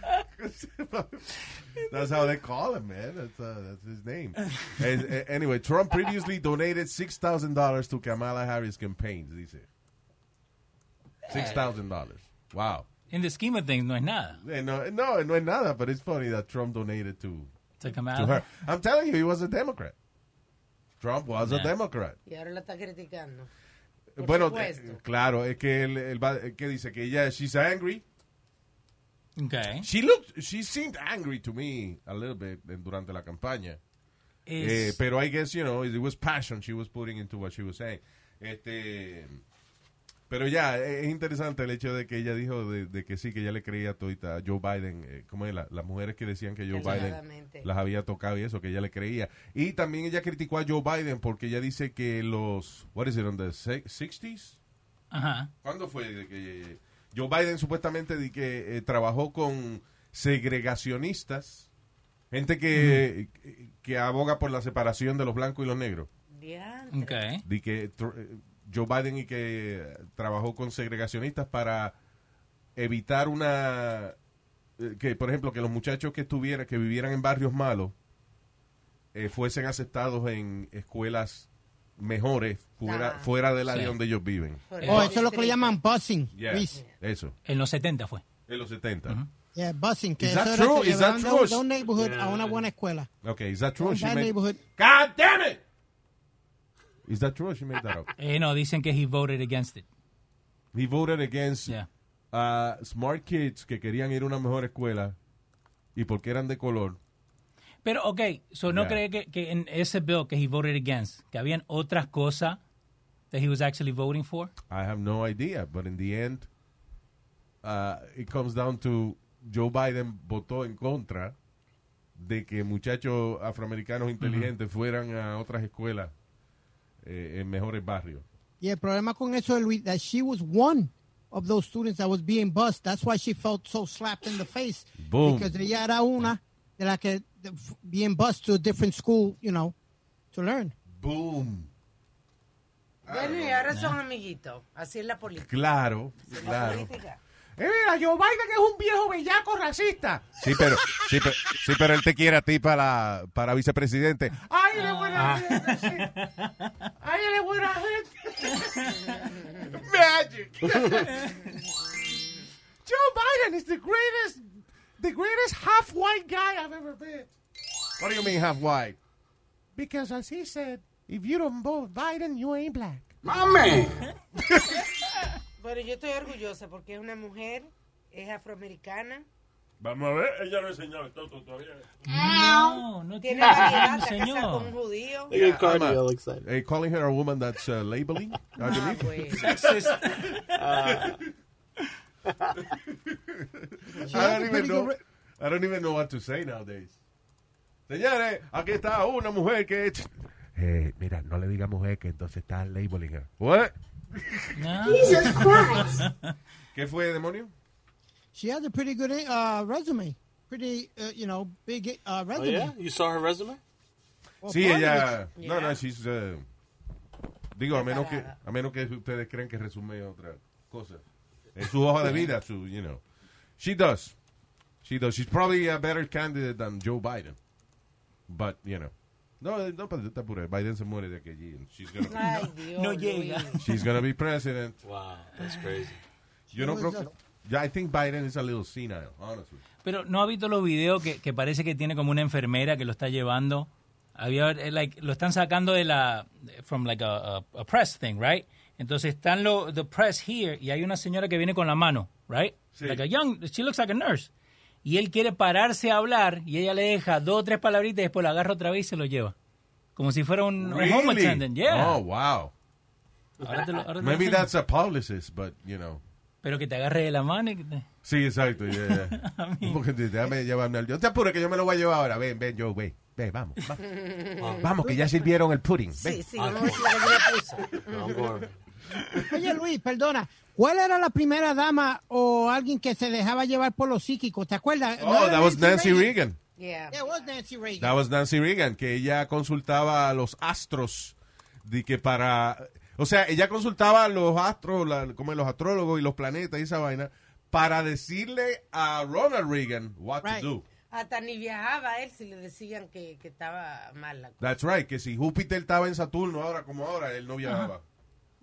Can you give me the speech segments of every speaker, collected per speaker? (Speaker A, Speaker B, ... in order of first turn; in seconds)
Speaker A: 0.3-9.7, 11.3-12.9, 14.4-19.9, 21.0-22.2, 24.1-28.0, 29.8-33.8, 34.6-39.4, 40.3-54.6, 55.6-61.7, 62.3-66.1, 67.4-71.9, 72.8-74.2, 74.8-77.9, 79.1-84.6, 86.3-87.3, 88.5-89.2, 90.2-91.6, 93.2-95.6, 97.0-98.1, 100.7-101.8, 102.3-105.2, 105.9-107.0, 108.7-109.0, 114.7-116.5, 117.6-121.3, 122.1-126.1, 127.0-128.2, 135.0-135.5, 140.9-141.7, 143.0-143.7, 145.3-146.9, 147.6-156.2, 157.0-161.5, 162.8-164.4, 165.0-167.3, 168.0-169.0, 169.8-173.2, 174.4-174.9, 185.3-191.3, 192.7-196.9, 197.9-204.9, 206.7-207.5, 214.4-216.4, 217.5-221.0, 221.5-223.0, 223.6-224.1, 224.8-227.4, 228.3-232.3, 233.6-234.8, 236.5-239.6, 252.7-253.0, 260.6-262.5, 264.0-266.0, 268.0-273.8, 274.6-276.2, 279.0-279.4, 285.0-286.4, 287.8-300.6, 304.4-307.8
Speaker B: 13.1-14.4, 17.8-18.5, 21.4-21.7, 29.4-29.9, 34.5-35.0, 55.1-55.5, 62.7-63.0, 66.9-67.4, 83.7-84.0, 84.8-85.1, 87.5-88.2, 98.2-99.8, 107.8-112.6, 113.3-114.5, 124.2-124.5, 143.7-144.0, 154.7-156.9, 158.5-159.1, 160.9-161.5, 182.1-184.7, 188.6-190.7, 204.5-206.3, 222.0-222.3, 232.2-233.7, 235.4-235.9, 239.8-254.3, 254.8-259.3, 259.9-262.0, 263.4-264.5, 266.4-267.9, 268.7-269.8
Speaker C: 22.2-23.5, 24.2-25.0, 46.7-47.7, 66.3-67.2, 82.8-83.3, 84.7-85.8, 143.1-145.5, 146.2-147.2, 159.0-159.7, 161.5-162.2, 175.6-179.2, 183.2-185.4, 188.6-189.6, 215.3-215.8, 217.7-218.3, 232.0-233.7, 273.8-274.9, 275.9-278.4, 286.6-287.3, 300.9-304.4
Speaker D: 84.8-86.8, 89.5-93.1, 93.8-94.6, 128.6-139.7, 140.3-140.7, 194.1-195.0, 208.3-212.8, 214.4-215.2, 236.5-237.1, 279.3-286.1, 286.9-287.9, 300.2-300.5
Speaker E: 91.8-92.7, 155.2-155.4, 173.2-174.0, 182.1-182.8, 183.4-183.9, 185.3-186.4, 190.5-191.2, 192.3-192.6, 204.8-206.1, 212.3-213.6, 234.8-236.0, 263.4-263.8, 274.4-274.7, 276.3-278.6
Speaker F: 179.8-181.9